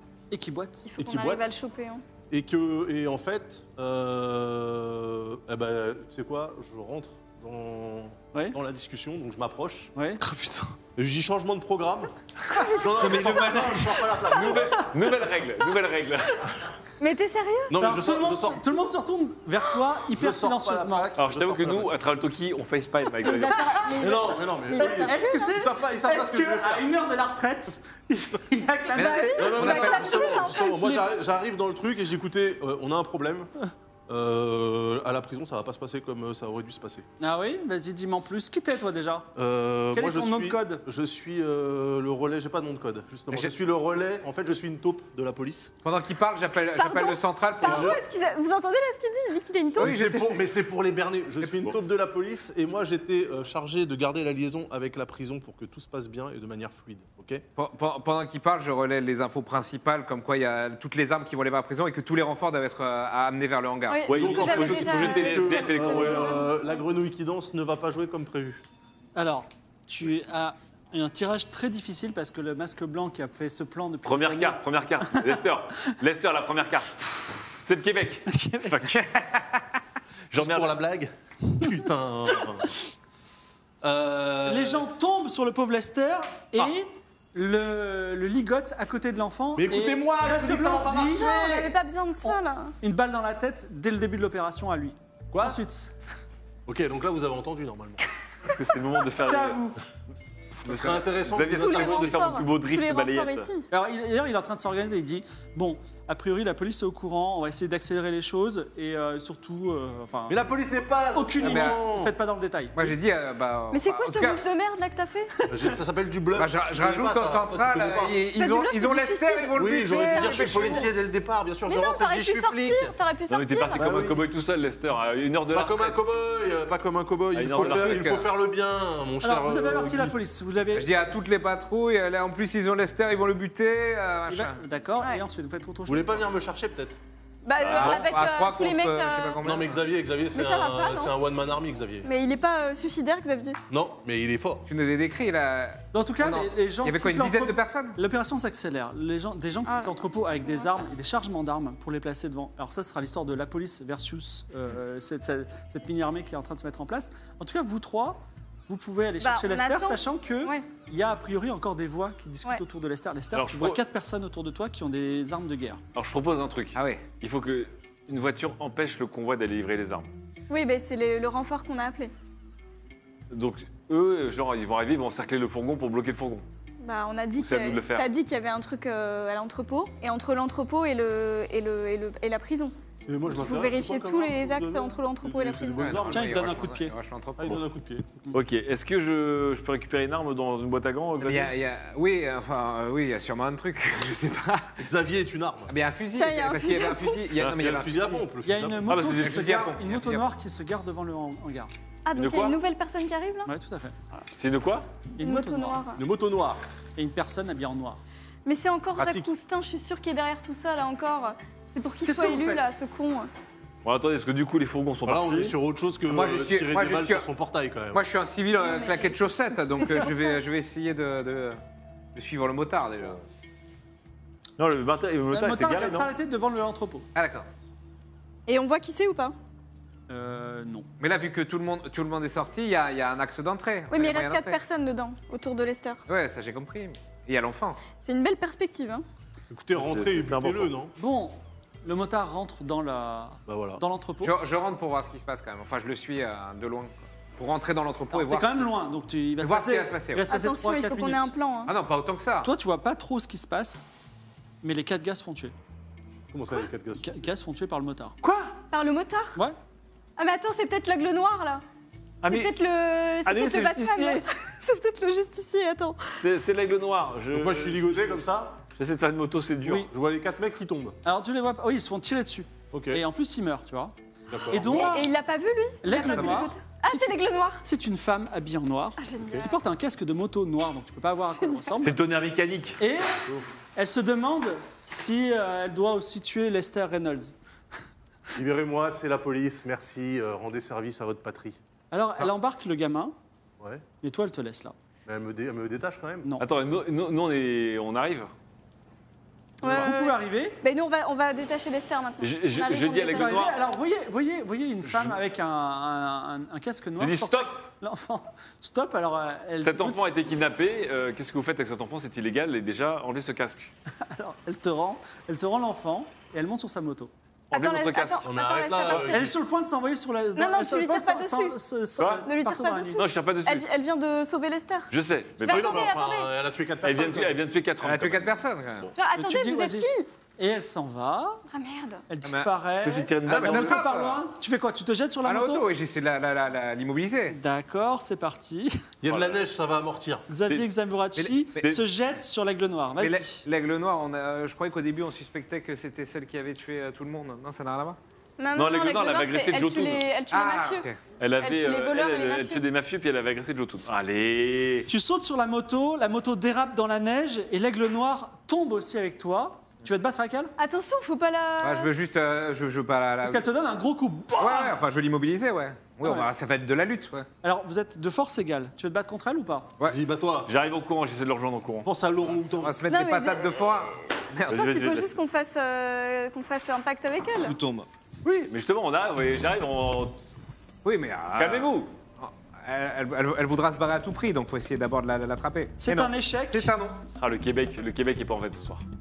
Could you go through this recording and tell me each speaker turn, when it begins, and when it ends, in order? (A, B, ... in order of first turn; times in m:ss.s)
0:00.3-0:01.0 A
0:00.9-0:02.0 B
0:02.3-0:09.9 C
0:10.0-0:10.7 A
0:11.0-0:15.0 C
0:13.0-0:14.2 D
0:13.0-0:13.4 E
0:14.3-0:16.4 E
0:17.0-0:17.8 B
0:17.7-0:18.6 C
0:17.8-0:21.1 A
0:20.1-0:22.0 C
0:21.2-0:23.8 E
0:23.2-0:25.6 B
0:24.0-0:26.9 C
0:24.7-0:31.1 A
0:29.0-0:30.5 D
0:29.3-0:30.3 B
0:29.4-0:33.5 C
0:34.1-0:37.1 C
0:37.2-0:39.3 A
0:39.4-0:45.7 C
0:39.9-0:40.8 A
0:45.8-0:48.0 D
0:46.8-0:49.9 B
0:47.6-0:48.0 C
0:49.8-0:50.5 D
0:49.8-0:57.4 C
0:57.6-1:04.2 D
1:03.9-1:06.8 B
1:04.1-1:06.4 E
1:04.1-1:08.6 C
1:09.2-1:15.4 A
1:14.0-1:19.1 E
1:18.3-1:19.0 A
1:20.3-1:20.8 E
1:20.3-1:22.7 C
1:23.8-1:24.9 C
1:24.4-1:31.4 A
1:29.6-1:31.7 C
1:31.0-1:32.8 B
1:32.2-1:35.9 A
1:35.3-1:35.6 C
1:36.7-1:38.0 C
1:38.4-1:39.6 E
1:39.2-1:39.8 A
1:40.6-1:42.2 C
1:40.7-1:43.5 E
1:41.6-1:43.7 B
1:43.7-1:50.4 A
1:50.3-1:52.2 C
1:51.1-1:52.9 A
1:51.4-1:51.9 D
1:52.8-1:54.4 D
1:53.7-1:55.3 B
1:55.4-1:58.2 C
1:56.4-2:00.9 D
1:58.4-2:00.9 B
1:59.6-2:02.9 C
2:01.7-2:03.9 B
2:03.3-2:06.0 E
2:03.8-2:04.2 C
2:05.5-2:10.2 C
2:07.3-2:08.2 E
2:07.6-2:08.3 D
2:09.2-2:10.9 A
2:10.7-2:14.6 D
2:14.3-2:16.3 A
2:15.9-2:17.0 C
2:17.4-2:19.4 B
2:17.6-2:19.8 D
2:17.7-2:18.1 E
2:19.4-2:22.1 C
2:20.3-2:21.2 B
2:22.0-2:23.6 B
2:23.7-2:24.6 C
2:24.7-2:28.0 D
2:25.9-2:45.8 A
2:29.6-2:30.0 B
2:39.2-2:40.7 B
2:43.3-2:43.8 E
2:46.0-2:50.1 E
2:46.8-2:47.0 D
2:50.5-2:52.1 B
2:53.3-2:56.4 E
2:56.8-3:02.7 B
2:57.4-2:58.1 E
3:03.0-3:06.6 C
3:03.3-3:06.0 B
3:05.7-3:07.6 D
3:06.1-3:06.9 A
3:07.4-3:08.2 C
3:08.3-3:11.5 E
3:11.2-3:14.8 D
3:14.8-3:15.7 C
3:15.7-3:18.2 D
3:16.2-3:17.2 B
3:17.4-3:17.6 E
3:17.4-3:18.8 C
3:18.4-3:21.7 A
3:18.9-3:19.4 E
3:19.0-3:20.3 D
3:22.0-3:23.5 B
3:22.1-3:22.6 E
3:23.5-3:24.2 A
3:24.4-3:24.9 E
3:25.2-3:25.8 A
3:25.2-3:26.0 B
3:26.0-3:26.6 C
3:27.0-3:28.0 A
3:28.4-3:33.3 B
3:29.0-3:29.3 C
3:32.0-3:32.7 A
3:33.8-3:35.6 E
3:35.0-3:38.0 C
3:36.1-3:37.3 D
3:37.9-3:41.6 D
3:38.6-3:39.2 B
3:39.8-3:40.3 B
3:42.2-3:43.2 D
3:44.6-3:46.1 E
3:45.3-3:47.1 A
3:47.2-3:47.5 D
3:48.5-3:49.3 B
3:50.1-3:50.9 A
3:51.0-3:54.6 D
3:53.9-3:56.0 B
3:56.1-3:57.8 D
3:58.0-3:59.0 B
3:59.5-4:00.9 C
3:59.7-4:00.7 E
4:01.0-4:04.3 A
4:03.5-4:03.8 C
4:04.2-4:08.7 D
4:08.1-4:11.3 A
4:09.4-4:10.3 D
4:10.3-4:11.7 B
4:11.7-4:12.5 D
4:12.4-4:13.9 A
4:14.6-4:15.5 A
4:16.3-4:17.1 C
4:17.0-4:18.2 A
4:18.2-4:18.5 E
4:18.7-4:19.4 B
4:20.2-4:21.6 B
4:22.2-4:22.5 E
4:22.3-4:26.2 B
4:23.2-4:24.2 E
4:26.2-4:28.2 E
4:27.3-4:28.6 C
4:28.8-4:29.9 E
4:29.6-4:29.9 A
4:29.8-4:31.0 C
4:31.0-4:34.0 A
4:32.7-4:33.0 C
4:34.3-4:35.0 C
4:34.5-4:35.0 A
4:34.7-4:37.6 B
4:35.8-4:42.0 A
4:39.0-4:39.6 B
4:39.2-4:39.4 C
4:41.8-4:42.8 E
4:42.8-4:43.1 A
4:43.8-4:47.4 A
4:48.4-4:51.6 C
4:51.9-4:53.2 A
4:53.6-4:53.8 C
4:54.0-4:54.8 A
4:55.1-4:56.3 C
4:56.4-4:58.3 E
4:59.6-5:00.6 A
4:59.6-5:03.5 B
5:02.2-5:03.6 E
5:03.1-5:10.1 A
5:07.0-5:07.6 E
5:09.6-5:13.7 E
5:14.0-5:17.1 A
5:17.5-5:19.3 B
5:17.5-5:18.2 E
5:18.2-5:19.3 C
5:19.1-5:23.0 A
5:20.4-5:21.6 B
5:22.0-5:22.2 E
5:22.2-5:26.3 B
5:22.9-5:23.6 E
5:24.9-5:25.8 E
5:25.4-5:27.4 C
5:26.8-5:28.9 E
5:27.8-5:28.9 D
5:29.0-5:30.1 B
5:29.2-5:31.4 A
5:31.5-5:32.0 B
5:32.1-5:35.7 A
5:32.2-5:32.5 D
5:32.7-5:33.9 E
5:33.2-5:34.2 D
5:35.2-5:37.4 D
5:37.3-5:38.8 A
5:39.0-5:40.3 C
5:39.1-5:39.4 E
5:40.3-5:43.4 A
5:41.2-5:41.6 D
5:43.0-5:48.0 D
5:48.4-5:50.9 B
5:48.6-5:50.1 E
5:50.3-5:51.0 D
5:51.2-5:54.9 E
5:51.4-5:52.6 B
5:54.9-6:00.5 A
6:00.6-6:01.9 B
6:01.6-6:03.5 D
6:03.2-6:04.8 A
6:04.4-6:07.3 D
6:06.0-6:06.3 A
6:07.4-6:09.7 A
6:09.9-6:10.5 C
6:10.5-6:11.9 E
6:11.8-6:12.8 C
6:12.3-6:14.6 D
6:12.9-6:13.6 B
6:14.5-6:15.2 E
6:14.5-6:17.6 B
6:17.4-6:17.9 D
6:18.2-6:20.2 E
6:20.8-6:27.0 D
6:21.3-6:21.9 E
6:25.8-6:26.7 A
6:27.2-6:28.8 E